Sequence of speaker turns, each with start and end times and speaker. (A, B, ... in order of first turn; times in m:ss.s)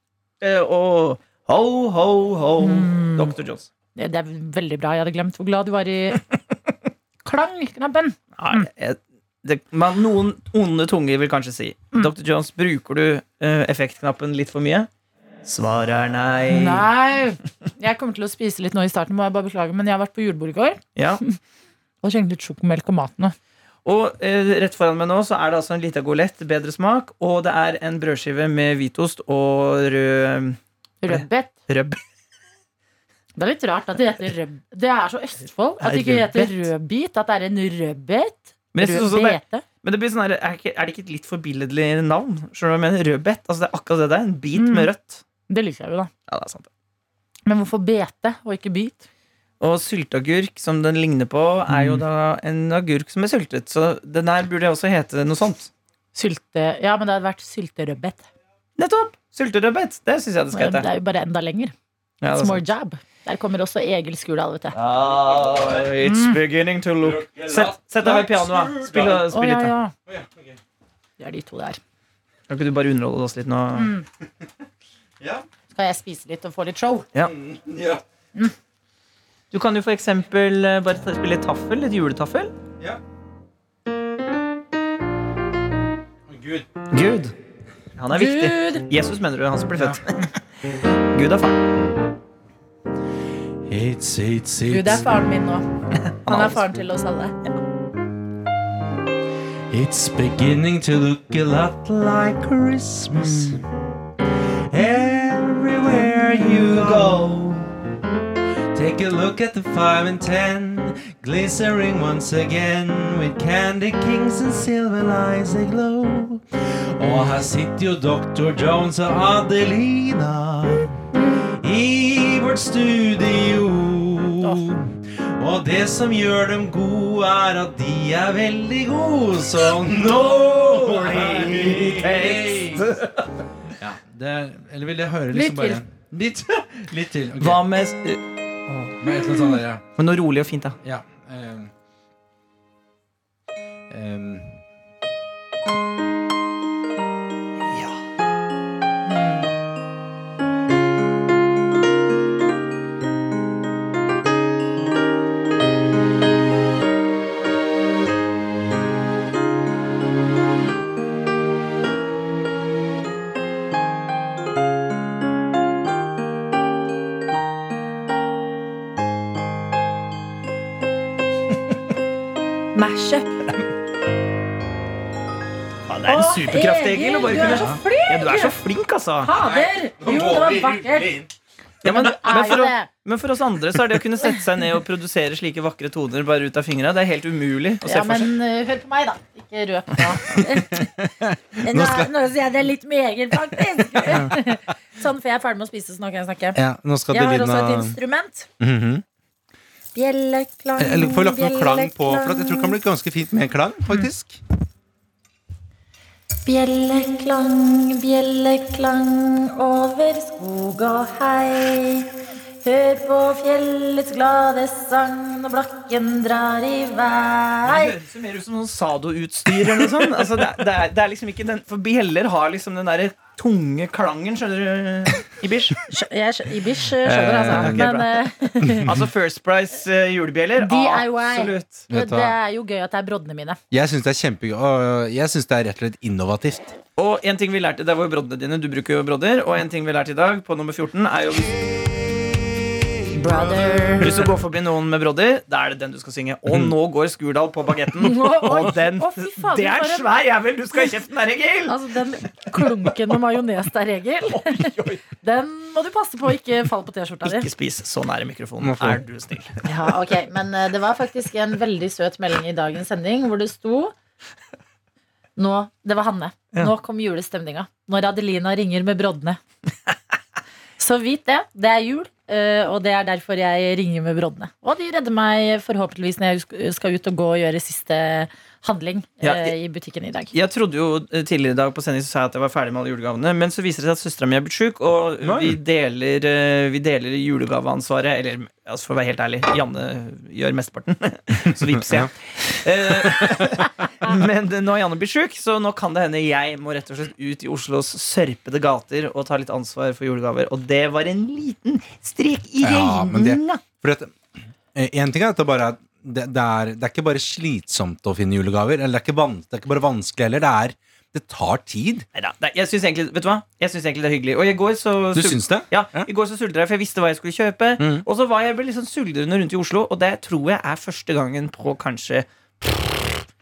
0:00.4-0:03.7 A
0:02.6-0:03.3 B
0:04.0-0:06.2 B
0:07.2-0:08.7 B
0:08.4-0:14.9 A
0:15.4-0:16.9 A
0:16.5-0:20.8 B
0:21.0-0:21.2 A
0:22.0-0:23.3 B
0:23.8-0:32.0 A
0:31.0-0:31.5 B
0:33.4-0:39.6 B
0:35.8-0:36.7 A
0:38.7-0:45.2 A
0:44.6-0:44.9 B
0:45.5-0:46.1 B
0:46.3-0:46.7 A
0:47.4-0:49.0 B
0:49.6-0:55.7 A
0:51.7-0:52.0 C
0:56.2-0:58.3 B
0:58.8-1:00.9 A
1:00.5-1:01.7 B
1:02.2-1:02.6 A
1:02.3-1:04.8 B
1:04.7-1:09.7 A
1:05.2-1:05.8 C
1:06.0-1:06.4 B
1:07.0-1:09.3 C
1:09.3-1:09.9 B
1:10.1-1:10.6 C
1:11.2-1:11.8 B
1:12.5-1:13.9 A
1:13.8-1:14.0 B
1:15.7-1:17.1 B
1:17.2-1:18.0 C
1:19.5-1:22.5 A
1:26.3-1:26.7 C
1:26.9-1:27.3 A
1:28.0-1:30.3 A
1:28.1-1:28.8 B
1:31.1-1:31.6 A
1:33.6-1:35.1 C
1:34.7-1:35.6 B
1:36.0-1:36.8 A
1:36.3-1:37.4 B
1:39.7-1:43.6 C
1:43.2-1:43.6 A
1:44.7-1:47.7 C
1:46.6-1:47.4 A
1:48.7-2:12.9 C
2:01.1-2:01.4 B
2:04.4-2:04.7 B
2:10.4-2:13.4 A
2:13.8-2:17.6 C
2:15.3-2:15.8 B
2:17.4-2:19.0 A
2:19.0-2:19.8 C
2:20.0-2:20.8 A
2:20.8-2:21.7 C
2:23.9-2:24.6 C
2:27.7-2:28.0 A
2:29.1-2:29.4 B
2:52.8-2:53.3 B
2:55.9-2:59.3 A
2:56.0-2:58.5 B
2:59.2-3:01.2 B
2:59.4-3:01.3 C
3:01.8-3:02.9 B
3:01.8-3:08.3 A
3:07.8-3:10.9 B
3:10.4-3:12.1 C
3:11.6-3:18.5 B
3:14.0-3:14.4 C
3:16.5-3:18.0 C
3:18.6-3:19.0 C
3:19.9-3:22.8 B
3:20.8-3:24.4 C
3:26.4-3:32.1 B
3:32.6-3:37.9 B
3:37.6-3:45.8 A
3:45.9-3:48.9 B
3:47.0-3:47.9 C
3:47.5-3:48.2 A
3:48.6-3:49.1 C
3:48.8-3:51.8 A
3:50.6-3:53.6 B
3:51.9-3:52.3 C
3:53.7-3:56.7 C
3:57.0-4:01.6 A
4:03.1-4:04.1 B
4:04.0-4:11.8 A
4:06.5-4:06.7 C
4:08.0-4:10.1 B
4:08.0-4:08.7 C
4:11.7-4:17.5 B
4:14.4-4:15.0 A
4:17.2-4:19.6 A
4:18.6-4:19.0 C
4:19.6-4:23.9 B
4:25.4-4:29.4 B
4:30.8-4:40.3 B
4:39.2-4:39.5 A
4:40.3-5:03.6 A
4:45.2-4:45.6 C
4:51.8-4:52.1 C
4:53.0-4:53.5 C
5:02.6-5:04.2 C
5:04.7-5:12.1 C
5:12.1-5:23.1 A
5:15.1-5:16.1 C
5:17.8-5:18.0 C